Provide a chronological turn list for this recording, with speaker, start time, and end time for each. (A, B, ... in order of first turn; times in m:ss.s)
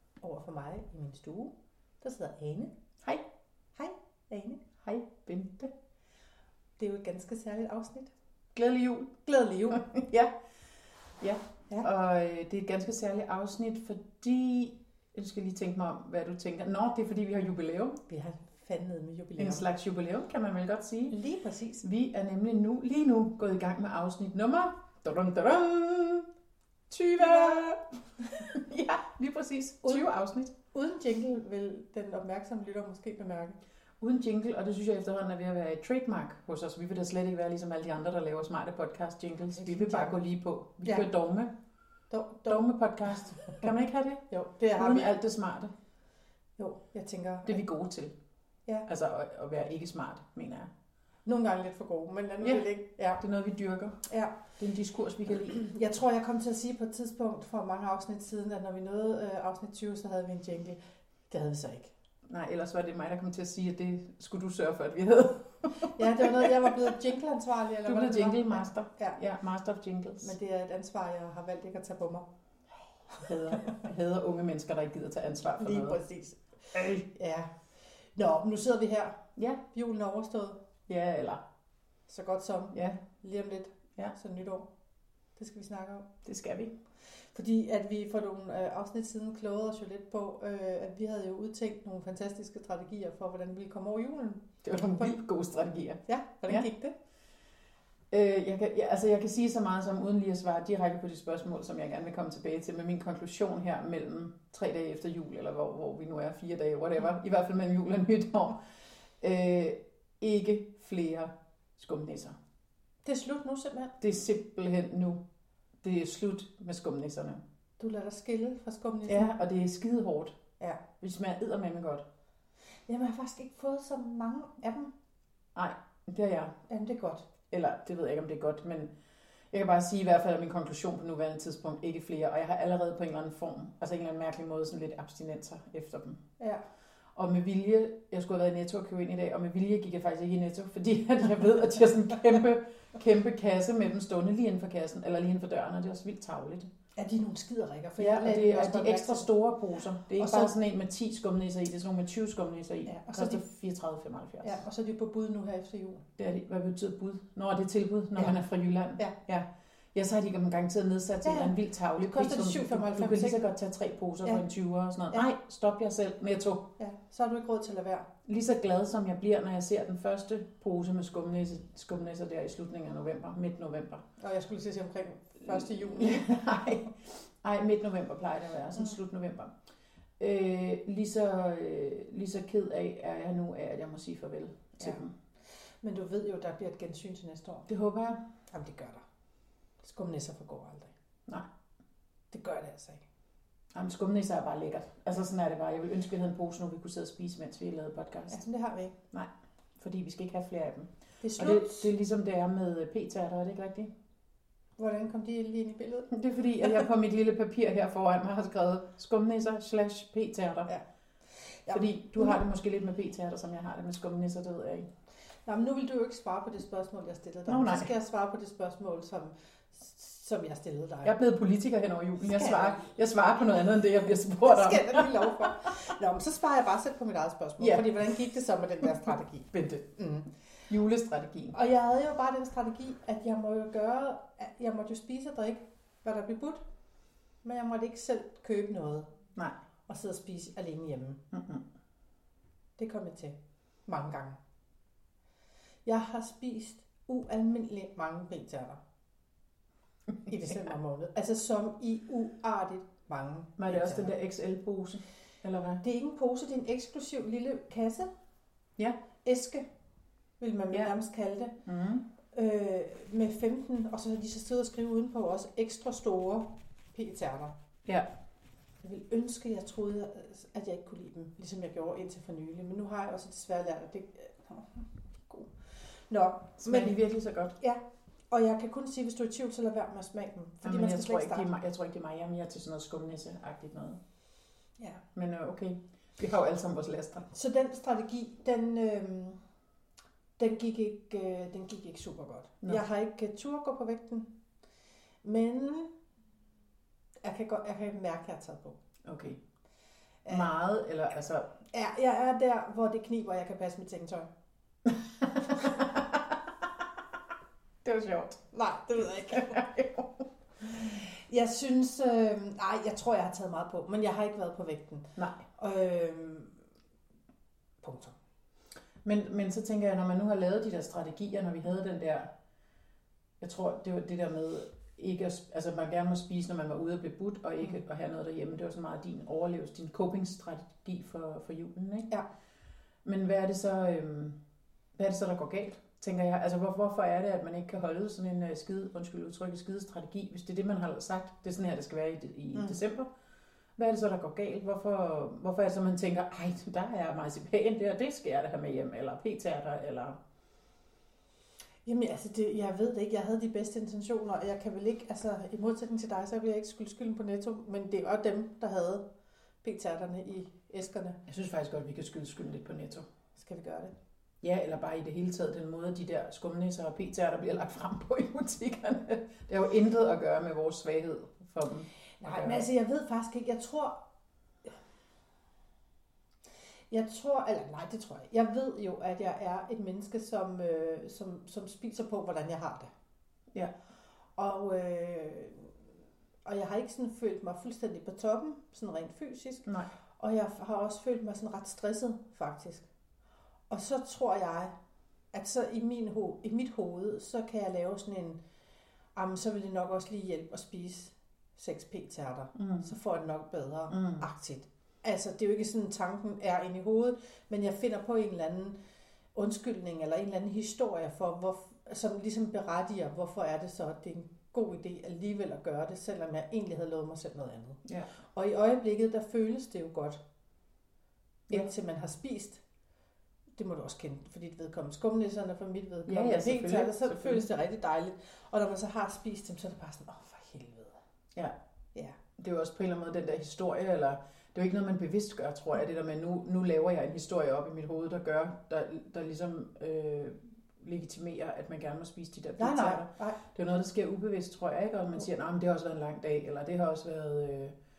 0:00.2-0:02.7 A
0:03.8-0:04.6 A
0:04.8-0:05.7 B
0:06.8-0:08.1 A
0:08.6-0:09.2 B
0:09.2-0:09.9 A
0:09.7-0:10.3 B
0:11.2-0:18.0 B
0:18.1-0:19.7 A
0:19.4-0:21.2 B
0:21.1-0:21.8 A
0:21.8-0:26.3 B
0:26.9-0:27.8 B
0:27.2-0:27.7 A
0:28.4-0:30.5 B
0:30.7-0:33.6 A
0:34.0-0:41.5 B
0:39.6-0:40.2 A
0:42.1-0:42.7 A
0:42.5-0:45.7 B
0:44.3-0:45.1 A
0:46.6-0:47.6 A
0:47.4-0:48.1 B
0:48.9-0:50.7 B
0:51.3-0:53.2 A
0:53.2-0:54.0 B
0:54.1-0:54.3 A
0:54.6-0:55.6 B
0:55.4-1:00.8 A
1:01.3-1:01.9 A
1:02.3-1:06.9 B
1:05.8-1:09.2 A
1:07.8-1:10.4 B
1:10.2-1:12.3 A
1:13.1-1:13.8 A
1:13.1-1:16.0 B
1:15.6-1:17.5 A
1:18.2-1:19.2 A
1:19.4-1:19.6 B
1:19.7-1:20.6 A
1:20.9-1:21.4 B
1:22.1-1:24.7 A
1:22.7-1:23.0 B
1:25.4-1:26.1 A
1:26.2-1:26.7 B
1:27.3-1:35.2 A
1:34.6-1:36.7 B
1:36.1-1:36.9 A
1:38.1-1:48.6 B
1:49.2-1:52.4 B
1:53.0-1:53.9 A
1:54.0-1:55.2 B
1:55.8-1:57.4 B
1:57.8-1:59.3 A
1:59.1-2:00.4 B
2:01.0-2:02.0 B
2:02.9-2:04.9 A
2:05.6-2:06.5 B
2:06.7-2:07.3 A
2:07.5-2:08.9 B
2:09.5-2:16.2 B
2:17.2-2:26.7 B
2:27.0-2:29.3 A
2:28.0-2:34.6 B
2:30.2-2:30.5 A
2:32.9-2:33.4 A
2:34.4-2:36.1 A
2:36.2-2:46.7 B
2:41.2-2:43.4 A
2:46.8-2:48.1 A
2:48.3-2:54.0 B
2:54.2-2:56.5 A
2:55.4-2:59.5 B
3:00.2-3:05.1 B
3:05.8-3:07.7 A
3:07.7-3:08.2 B
3:08.5-3:09.0 A
3:09.8-3:10.9 A
3:12.3-3:13.0 A
3:13.7-3:18.4 B
3:18.3-3:19.0 A
3:19.1-3:23.9 B
3:21.2-3:21.9 A
3:24.8-3:26.8 A
3:26.1-3:30.7 B
3:31.3-3:32.4 A
3:31.7-3:34.9 B
3:35.5-3:41.2 A
3:37.5-3:37.9 B
3:41.0-3:45.7 B
3:42.2-3:50.3 A
3:47.6-3:48.2 B
3:50.7-3:51.6 B
3:51.5-3:56.6 A
3:57.4-3:59.1 A
3:59.9-4:01.2 A
4:01.3-4:01.6 B
4:02.8-4:04.4 A
4:05.9-4:08.8 A
4:10.3-4:14.1 A
4:13.6-4:15.8 B
4:15.8-4:18.1 A
4:19.2-4:19.6 A
4:20.4-4:21.6 A
4:21.6-4:22.0 B
4:22.3-4:27.5 A
4:28.8-4:35.5 A
4:36.1-4:37.0 A
4:36.6-4:37.6 B
4:37.6-4:41.5 A
4:40.6-4:44.0 B
4:45.2-4:47.2 B
4:47.2-4:49.4 A
4:50.4-4:54.3 A
4:55.2-4:55.9 A
4:57.2-4:58.8 A
4:59.0-4:59.4 B
5:00.2-5:00.5 A
5:00.3-5:01.5 B
5:01.7-5:04.3 A
5:04.9-5:06.7 B
5:07.8-5:08.4 B
5:08.5-5:09.6 A
5:09.3-5:11.0 B
5:10.7-5:16.6 A
5:15.2-5:15.4 B
5:17.8-5:18.2 A
5:19.0-5:22.3 B
5:23.4-5:32.1 B
5:33.0-5:34.4 B
5:35.0-5:43.1 B
5:43.8-5:50.2 B
5:51.8-5:59.0 A
5:59.6-6:01.2 A
6:01.3-6:03.1 B
6:03.4-6:03.9 A
6:04.4-6:12.6 B
6:12.2-6:14.0 A
6:16.9-6:22.9 A
6:24.4-6:25.7 A
6:26.5-6:29.7 A
6:30.2-6:32.9 A
6:33.7-6:34.8 A
6:35.3-6:38.4 A
6:39.2-6:48.8 A
6:42.6-6:42.9 B
6:43.9-6:44.2 B
6:49.3-6:57.8 A
6:58.3-7:00.2 A
7:01.5-7:02.6 A
7:03.6-7:11.0 A
7:06.1-7:07.4 B
7:12.4-7:27.7 B
7:22.6-7:23.4 A